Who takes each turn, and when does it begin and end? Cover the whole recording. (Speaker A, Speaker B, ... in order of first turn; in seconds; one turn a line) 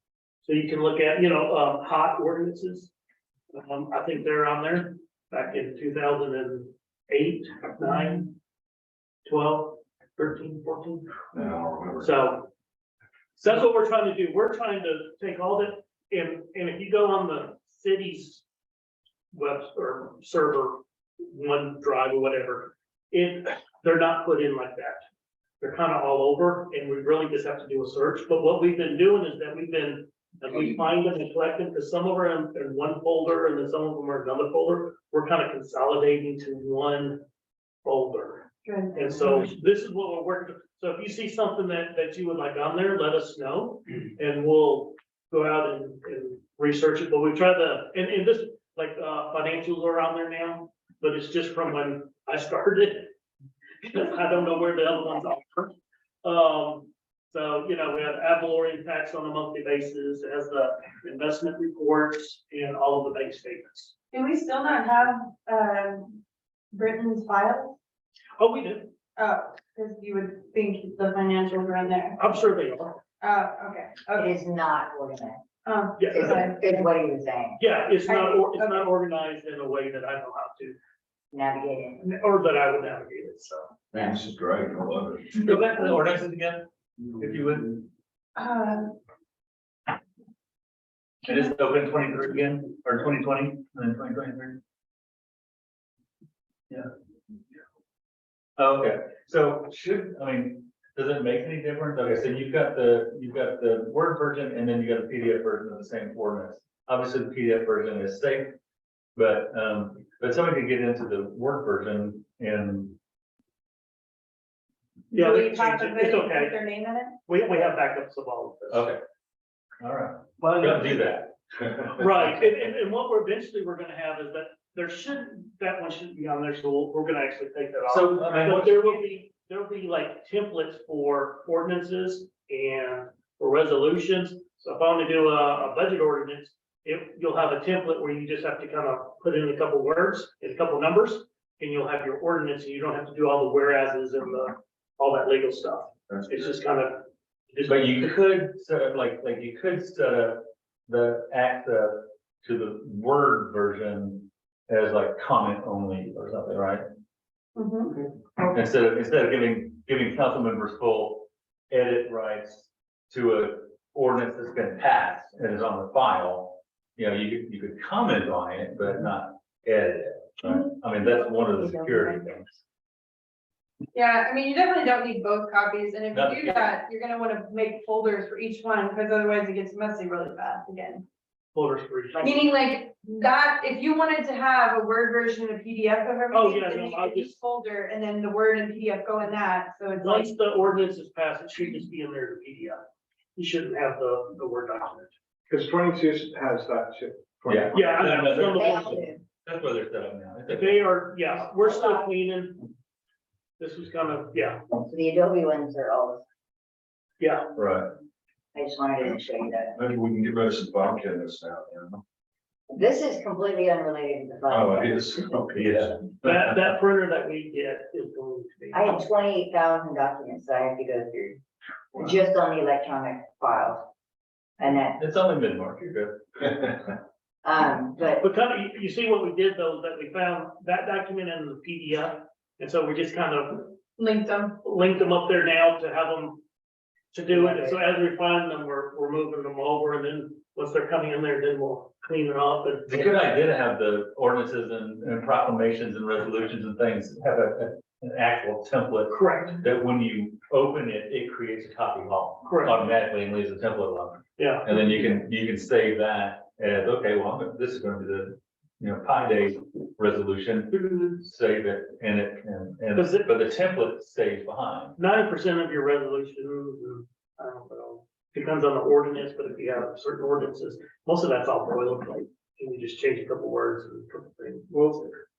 Speaker A: 0.4-2.9
Speaker A: 3.5-8.3
Speaker A: 9.2-11.2
Speaker B: 11.3-12.2
Speaker A: 12.0-12.5
Speaker A: 13.4-18.4
Speaker A: 19.3-25.0
Speaker A: 25.6-37.2
Speaker A: 37.8-53.1
Speaker C: 38.6-39.5
Speaker A: 53.8-55.7
Speaker A: 56.2-63.9
Speaker C: 64.1-66.2
Speaker C: 66.7-67.8
Speaker A: 68.4-68.9
Speaker C: 69.2-72.2
Speaker A: 72.2-73.0
Speaker C: 73.2-74.3
Speaker D: 74.1-75.4
Speaker C: 75.7-76.5
Speaker A: 76.0-76.6
Speaker D: 76.1-77.6
Speaker A: 77.6-80.8
Speaker C: 78.1-78.8
Speaker D: 81.3-82.0
Speaker A: 82.0-83.7
Speaker B: 83.9-85.6
Speaker E: 85.4-87.8
Speaker C: 88.4-88.9
Speaker E: 91.2-94.6
Speaker E: 98.6-108.5
Speaker E: 109.2-113.0
Speaker C: 115.1-117.2
Speaker A: 115.1-116.5
Speaker A: 117.3-118.9
Speaker E: 118.7-119.0
Speaker E: 119.8-121.3
Speaker A: 120.4-120.9
Speaker A: 122.0-148.1
Speaker E: 127.9-129.0
Speaker E: 147.7-156.8
Speaker C: 157.6-158.0
Speaker E: 158.5-172.6
Speaker D: 171.2-172.2
Speaker C: 173.9-181.0
Speaker E: 176.1-176.7
Speaker A: 181.5-182.3
Speaker C: 182.2-190.3
Speaker A: 186.3-187.3
Speaker A: 190.0-192.8
Speaker A: 193.4-195.1
Speaker F: 195.5-197.7
Speaker E: 197.5-200.8
Speaker A: 197.7-199.1
Speaker D: 198.3-199.2
Speaker A: 200.5-202.6
Speaker D: 201.7-202.0
Speaker A: 203.6-204.6
Speaker D: 204.8-206.2
Speaker A: 207.2-207.5
Speaker E: 207.6-207.9
Speaker D: 208.5-209.8
Speaker B: 209.8-212.0
Speaker D: 212.7-215.0
Speaker B: 214.5-216.0
Speaker E: 215.6-216.6
Speaker A: 216.2-219.0
Speaker D: 218.7-221.4
Speaker D: 221.9-223.8
Speaker D: 224.6-225.0
Speaker E: 225.0-226.7
Speaker D: 227.4-228.2
Speaker A: 228.2-233.7
Speaker C: 234.0-234.5
Speaker A: 234.6-236.4
Speaker A: 237.1-242.9
Speaker D: 237.3-237.8
Speaker E: 242.9-265.0
Speaker A: 249.1-249.6
Speaker A: 252.4-252.8
Speaker A: 254.4-254.7
Speaker A: 260.7-261.1
Speaker A: 262.9-263.3
Speaker A: 265.0-274.7
Speaker F: 274.7-275.1